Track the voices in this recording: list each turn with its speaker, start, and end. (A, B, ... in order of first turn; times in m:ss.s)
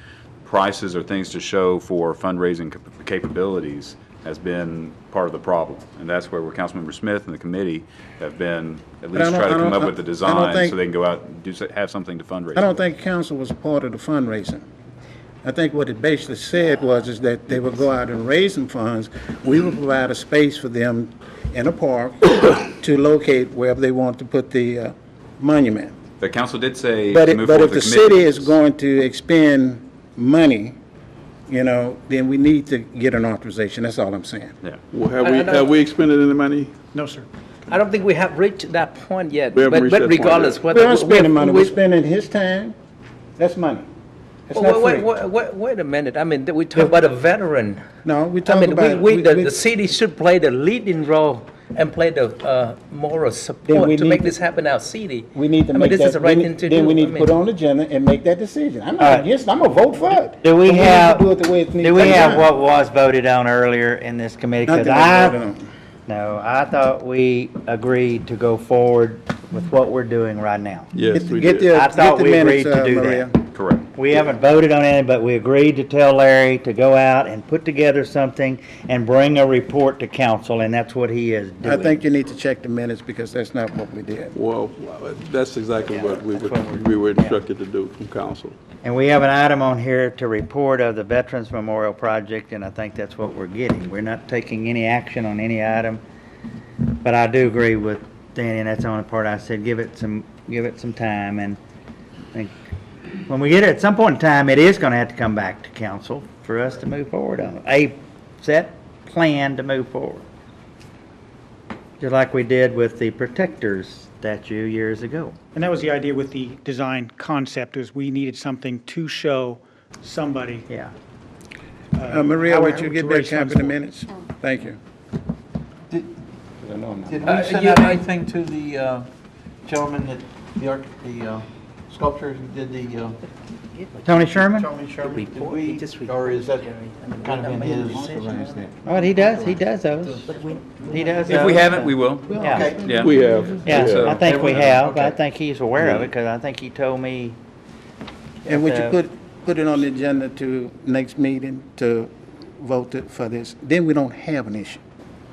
0:00.4-0:12.8 A
0:09.1-0:10.8 B
0:12.5-0:14.6 B
0:15.4-0:25.9 B
0:26.2-0:28.6 A
0:27.1-0:30.8 B
0:31.5-0:34.5 B
0:34.9-0:36.7 C
0:35.2-0:35.7 D
0:36.9-0:37.3 E
0:37.7-0:41.7 D
0:39.5-0:40.7 C
0:40.7-0:42.7 B
0:43.4-0:43.9 B
0:44.5-0:45.1 B
0:44.5-0:47.8 D
0:48.0-0:49.6 B
0:48.4-0:57.4 D
0:53.6-0:54.4 B
0:55.3-1:02.5 B
0:59.0-0:59.3 F
1:00.4-1:01.3 F
1:01.8-1:05.4 F
1:04.6-1:05.6 B
1:06.1-1:10.9 F
1:10.9-1:11.7 C
1:11.1-1:13.4 B
1:11.7-1:13.3 F
1:13.5-1:13.8 A
1:13.9-1:22.0 F
1:21.6-1:24.3 B
1:24.3-1:28.6 C
1:25.8-1:27.4 F
1:28.8-1:36.0 F
1:37.0-1:41.6 F
1:43.2-1:50.2 F
1:52.0-1:55.4 F
1:55.5-2:00.7 E
2:01.9-2:03.8 E
2:02.1-2:04.8 B
2:06.6-2:07.3 B
2:07.1-2:09.1 G
2:07.2-2:08.0 D
2:09.6-2:13.2 G
2:13.8-2:14.3 D
2:14.0-2:14.7 F
2:14.5-2:15.2 B
2:15.0-2:19.5 D
2:15.3-2:16.7 G
2:17.2-2:18.7 G
2:18.8-2:20.2 F
2:20.2-2:21.3 D
2:20.9-2:22.8 F
2:21.3-2:23.2 A
2:22.3-2:23.1 B
2:23.0-2:24.1 C
2:23.4-2:25.1 G
2:23.6-2:27.4 F
2:23.7-2:24.8 A
2:28.4-2:29.0 F
2:28.5-2:34.8 B